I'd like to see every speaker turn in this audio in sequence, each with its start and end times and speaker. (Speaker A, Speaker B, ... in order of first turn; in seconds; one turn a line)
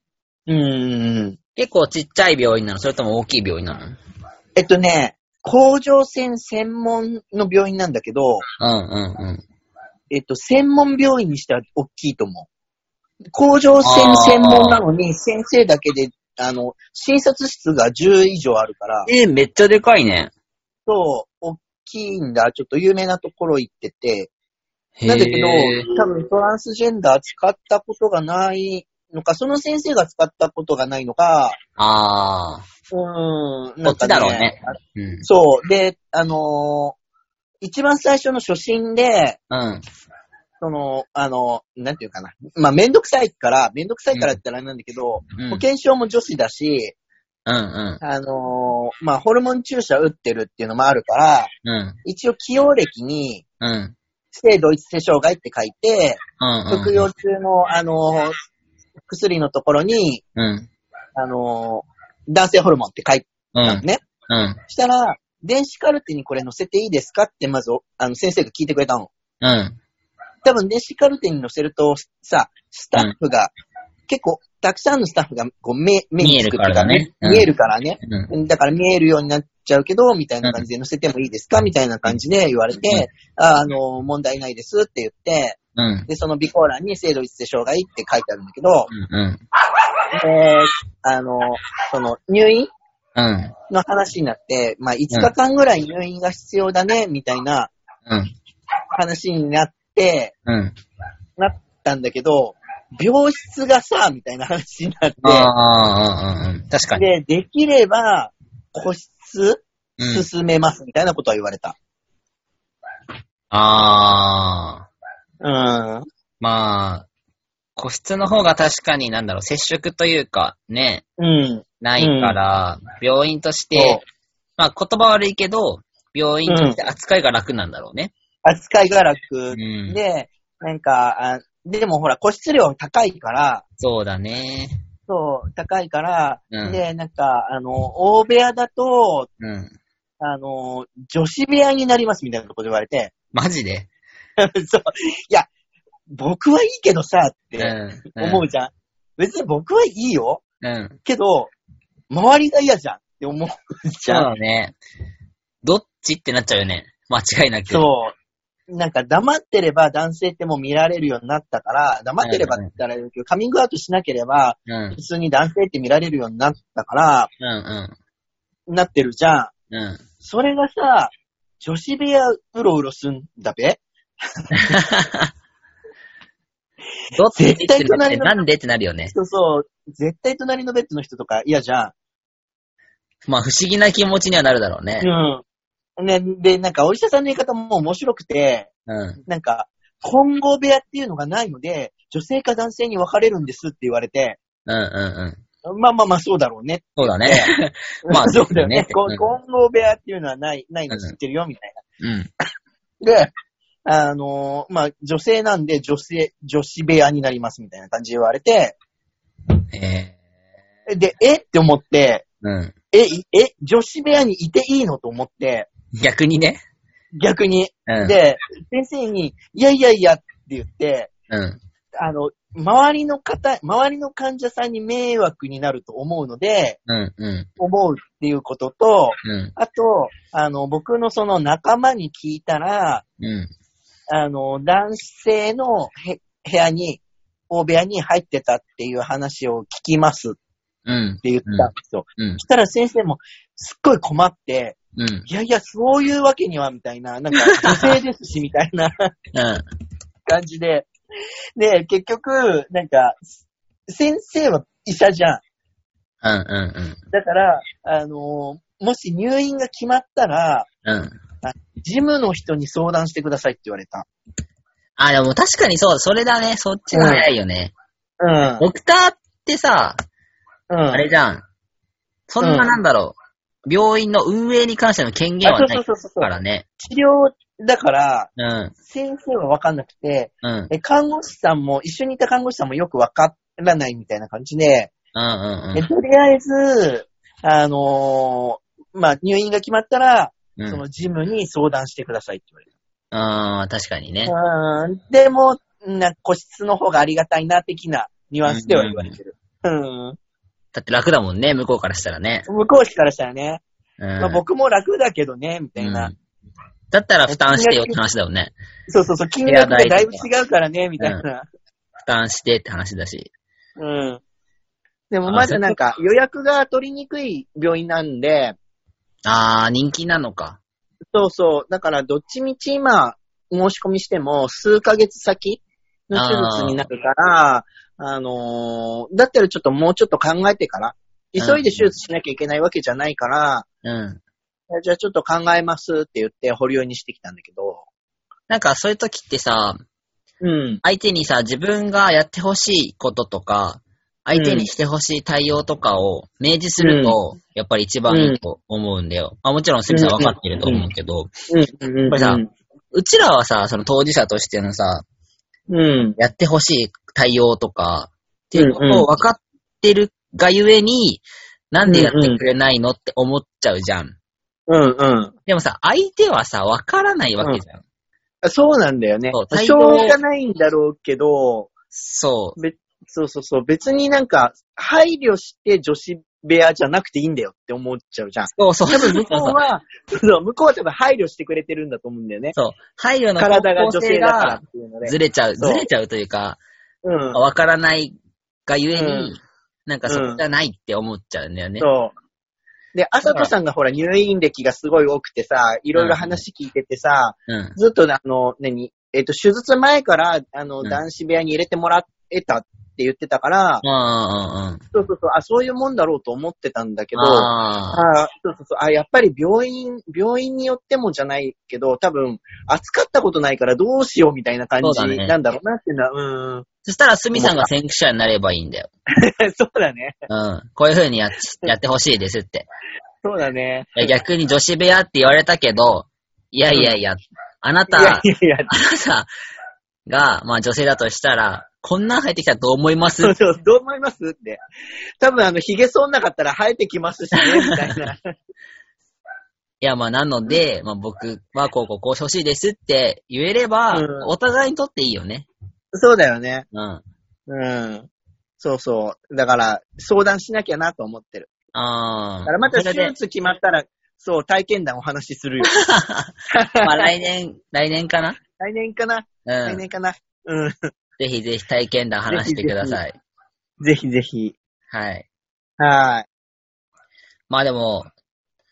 Speaker A: 0.5-1.4
Speaker B: 1.6-4.0
Speaker A: 4.6-8.4
Speaker B: 8.6-9.4
Speaker A: 10.1-12.5
Speaker A: 13.3-19.1
Speaker B: 13.8-14.8
Speaker B: 19.1-20.3
Speaker A: 20.9-24.3
Speaker B: 25.0-25.9
Speaker A: 25.1-31.6
Speaker B: 31.8-32.6
Speaker A: 32.9-37.0
Speaker B: 33.9-35.3
Speaker A: 37.6-39.4
Speaker B: 39.5-39.8
Speaker A: 40.6-47.0
Speaker B: 45.4-45.6
Speaker B: 47.5-48.0
Speaker A: 48.0-51.5
Speaker B: 51.6-52.0
Speaker A: 52.0-53.4
Speaker B: 53.6-54.0
Speaker A: 54.3-58.4
Speaker B: 56.4-57.1
Speaker A: 59.1-60.2
Speaker B: 60.4-60.7
Speaker A: 61.2-64.0
Speaker B: 63.5-64.6
Speaker A: 64.7-69.1
Speaker B: 69.4-69.8
Speaker A: 70.4-73.5
Speaker A: 74.1-88.9
Speaker B: 76.2-77.5
Speaker B: 78.0-78.3
Speaker B: 85.8-86.1
Speaker B: 88.9-89.4
Speaker A: 90.2-92.7
Speaker B: 93.2-93.5
Speaker A: 93.7-97.7
Speaker B: 98.1-98.3
Speaker A: 99.0-100.3
Speaker B: 100.5-100.7
Speaker A: 101.4-105.5
Speaker B: 105.2-107.1
Speaker A: 107.0-111.8
Speaker B: 110.0-110.2
Speaker B: 113.5-114.9
Speaker A: 115.4-116.0
Speaker B: 116.4-117.1
Speaker B: 117.8-121.0
Speaker A: 121.2-122.4
Speaker B: 121.8-124.0
Speaker A: 123.8-124.0
Speaker B: 124.6-128.1
Speaker A: 126.5-126.8
Speaker A: 128.4-133.6
Speaker B: 129.5-130.0
Speaker B: 133.8-134.8
Speaker A: 135.1-139.3
Speaker B: 136.5-136.8
Speaker B: 139.4-139.7
Speaker A: 140.2-143.1
Speaker B: 143.3-143.9
Speaker A: 144.4-145.5
Speaker A: 146.1-150.4
Speaker B: 147.6-148.4
Speaker B: 150.6-151.0
Speaker A: 151.1-151.5
Speaker A: 152.1-154.3
Speaker B: 154.1-154.8
Speaker B: 155.6-157.9
Speaker A: 157.7-158.1
Speaker A: 158.7-167.3
Speaker B: 162.2-162.7
Speaker B: 164.7-165.0
Speaker B: 167.4-167.9
Speaker A: 168.7-169.5
Speaker B: 169.7-170.0
Speaker A: 170.2-173.8
Speaker A: 174.4-174.7
Speaker B: 174.7-175.3
Speaker B: 177.1-179.1
Speaker A: 177.4-178.3
Speaker A: 179.1-181.9
Speaker B: 183.3-185.1
Speaker A: 185.0-185.4
Speaker A: 186.0-188.7
Speaker B: 188.9-189.2
Speaker A: 189.3-194.4
Speaker B: 194.7-195.4
Speaker A: 195.7-197.5
Speaker B: 197.0-199.2
Speaker A: 198.1-201.8
Speaker B: 200.9-201.2
Speaker B: 202.0-202.3
Speaker A: 203.0-203.3
Speaker A: 203.9-208.8
Speaker B: 209.7-210.1
Speaker A: 210.9-212.2
Speaker B: 212.4-212.7
Speaker A: 212.9-215.7
Speaker B: 216.0-216.6
Speaker A: 217.2-221.1
Speaker B: 217.9-218.1
Speaker B: 221.3-221.6
Speaker A: 222.0-226.8
Speaker B: 226.9-227.5
Speaker A: 227.6-233.1
Speaker B: 229.2-229.5
Speaker B: 233.2-233.5
Speaker A: 234.1-240.4
Speaker B: 240.9-242.4
Speaker A: 241.2-244.8
Speaker B: 245.0-245.3
Speaker A: 245.3-248.9
Speaker B: 247.7-248.0
Speaker B: 249.3-249.6
Speaker A: 250.3-250.9
Speaker A: 251.6-253.3
Speaker A: 253.9-255.4
Speaker B: 256.2-257.0
Speaker A: 257.1-260.7
Speaker B: 260.9-261.2
Speaker A: 261.4-264.1
Speaker B: 265.0-267.7
Speaker A: 266.9-267.3
Speaker A: 268.2-268.6
Speaker B: 268.6-270.0
Speaker A: 270.7-271.1
Speaker B: 270.9-271.4
Speaker B: 272.3-273.2
Speaker A: 272.4-272.7
Speaker B: 273.7-276.6
Speaker A: 275.4-278.3
Speaker B: 278.4-278.7
Speaker A: 278.9-284.9
Speaker B: 280.4-280.7
Speaker B: 285.1-285.9
Speaker A: 285.8-292.6
Speaker B: 290.6-290.8
Speaker B: 293.1-294.3
Speaker A: 294.3-300.2
Speaker B: 298.5-299.2
Speaker B: 300.7-302.5
Speaker A: 302.5-303.6
Speaker B: 304.0-304.4
Speaker A: 304.2-306.1
Speaker B: 305.8-306.1
Speaker B: 306.9-308.5
Speaker A: 307.3-308.0
Speaker A: 308.9-311.5
Speaker B: 309.5-310.3
Speaker B: 312.0-313.3
Speaker A: 313.8-314.2
Speaker A: 315.1-318.6
Speaker B: 315.3-315.8
Speaker B: 319.3-320.6
Speaker A: 321.1-333.7
Speaker B: 326.1-326.9
Speaker B: 331.4-331.9
Speaker B: 333.8-334.2
Speaker A: 334.7-337.8
Speaker B: 338.5-339.8
Speaker A: 340.4-340.8
Speaker B: 340.8-351.3
Speaker A: 344.3-344.7
Speaker A: 346.8-347.2
Speaker A: 348.1-348.4
Speaker A: 349.9-350.9
Speaker A: 351.5-352.5
Speaker B: 352.1-352.4
Speaker B: 352.9-355.0
Speaker A: 355.7-356.2
Speaker B: 356.2-364.1
Speaker A: 358.6-359.1
Speaker A: 361.9-362.5
Speaker A: 364.7-365.3
Speaker B: 365.5-367.8
Speaker A: 368.4-371.7
Speaker B: 369.3-370.2
Speaker B: 371.9-372.6
Speaker A: 372.6-382.6
Speaker B: 378.5-379.6
Speaker B: 382.6-386.6
Speaker A: 383.4-385.9
Speaker A: 387.0-387.4
Speaker B: 387.3-388.1
Speaker B: 388.7-391.9
Speaker A: 388.9-389.3
Speaker A: 390.1-390.4
Speaker A: 391.8-392.1
Speaker A: 392.9-403.8
Speaker B: 393.2-393.5
Speaker B: 395.9-396.4
Speaker B: 397.5-397.8
Speaker B: 403.8-404.8
Speaker A: 404.9-416.6
Speaker B: 407.2-408.0
Speaker B: 414.8-415.4
Speaker B: 416.9-418.9
Speaker A: 417.4-417.7
Speaker A: 419.4-420.1
Speaker B: 420.3-422.6
Speaker A: 423.2-424.1
Speaker B: 424.0-429.3
Speaker A: 426.7-427.0
Speaker A: 427.9-428.7
Speaker B: 430.1-433.3
Speaker A: 433.2-434.6
Speaker A: 435.2-438.3
Speaker B: 439.8-445.5
Speaker A: 443.9-444.3
Speaker A: 445.9-446.7
Speaker B: 446.7-447.0
Speaker A: 447.5-448.1
Speaker A: 448.6-451.5
Speaker B: 451.7-453.1
Speaker A: 452.5-455.8
Speaker B: 455.7-458.4
Speaker A: 456.5-457.1
Speaker A: 458.6-460.9
Speaker B: 459.5-459.8
Speaker B: 461.2-463.2
Speaker A: 462.3-463.0
Speaker A: 463.8-464.6
Speaker B: 464.9-465.3
Speaker A: 465.8-466.3
Speaker B: 467.5-468.1